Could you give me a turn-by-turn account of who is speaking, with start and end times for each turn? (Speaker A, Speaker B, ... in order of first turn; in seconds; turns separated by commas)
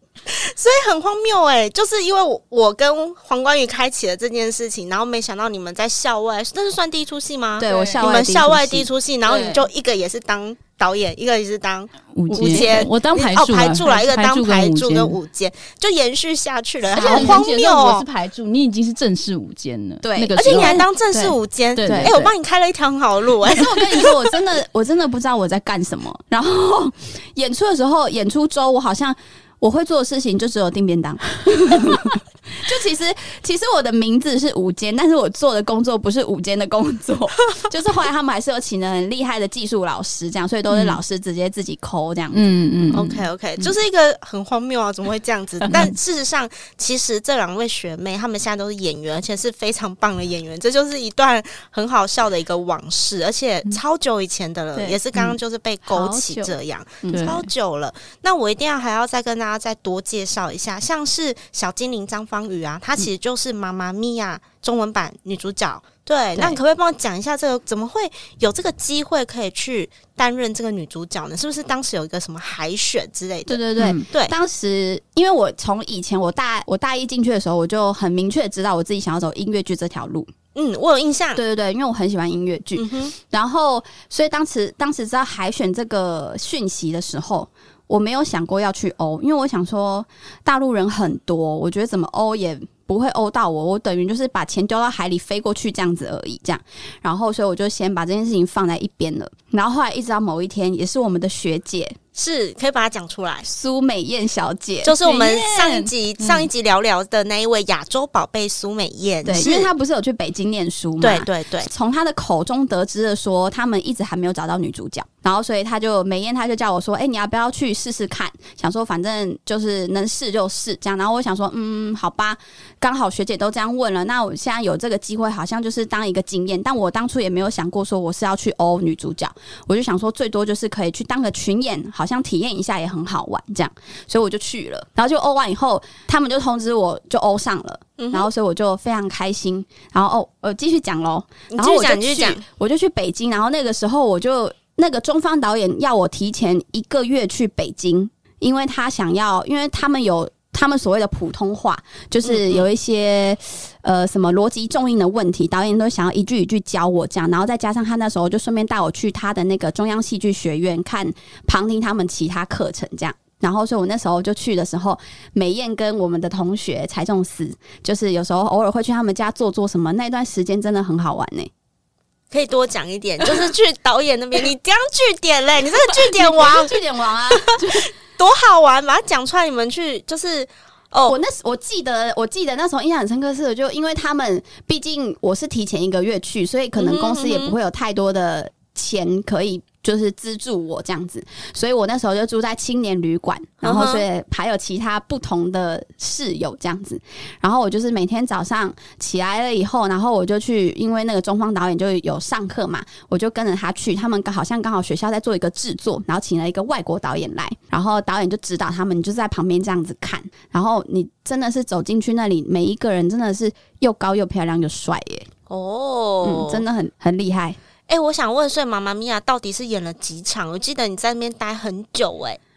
Speaker A: 0.3-18.1, Speaker B: 7.6-8.9, Speaker C: 7.7-8.1, Speaker C: 9.3-9.6, Speaker C: 12.1-15.2, Speaker B: 12.3-12.9, Speaker B: 16.9-17.4, Speaker C: 17.0-20.8, Speaker B: 20.0-22.3, Speaker A: 20.4-24.4, Speaker C: 21.8-22.3, Speaker B: 23.4-43.0, Speaker C: 40.7-41.0, Speaker C: 42.3-43.2, Speaker A: 42.9-74.3, Speaker B: 54.8-55.4, Speaker B: 55.9-57.5, Speaker C: 57.1-57.4, Speaker B: 73.5-80.3, Speaker A: 80.5-81.4, Speaker B: 81.4-102.0, Speaker A: 82.8-83.1, Speaker A: 102.2-103.5, Speaker B: 103.5-105.9, Speaker A: 104.8-109.7, Speaker B: 109.2-171.5, Speaker A: 111.0-111.7, Speaker A: 138.0-138.3, Speaker A: 141.5-142.4, Speaker A: 152.2-152.7, Speaker A: 172.3-181.2, Speaker B: 175.9-177.9, Speaker B: 181.1-215.3, Speaker A: 186.8-187.6, Speaker A: 193.6-194.1, Speaker A: 215.5-216.6, Speaker B: 216.2-217.6, Speaker A: 217.9-222.4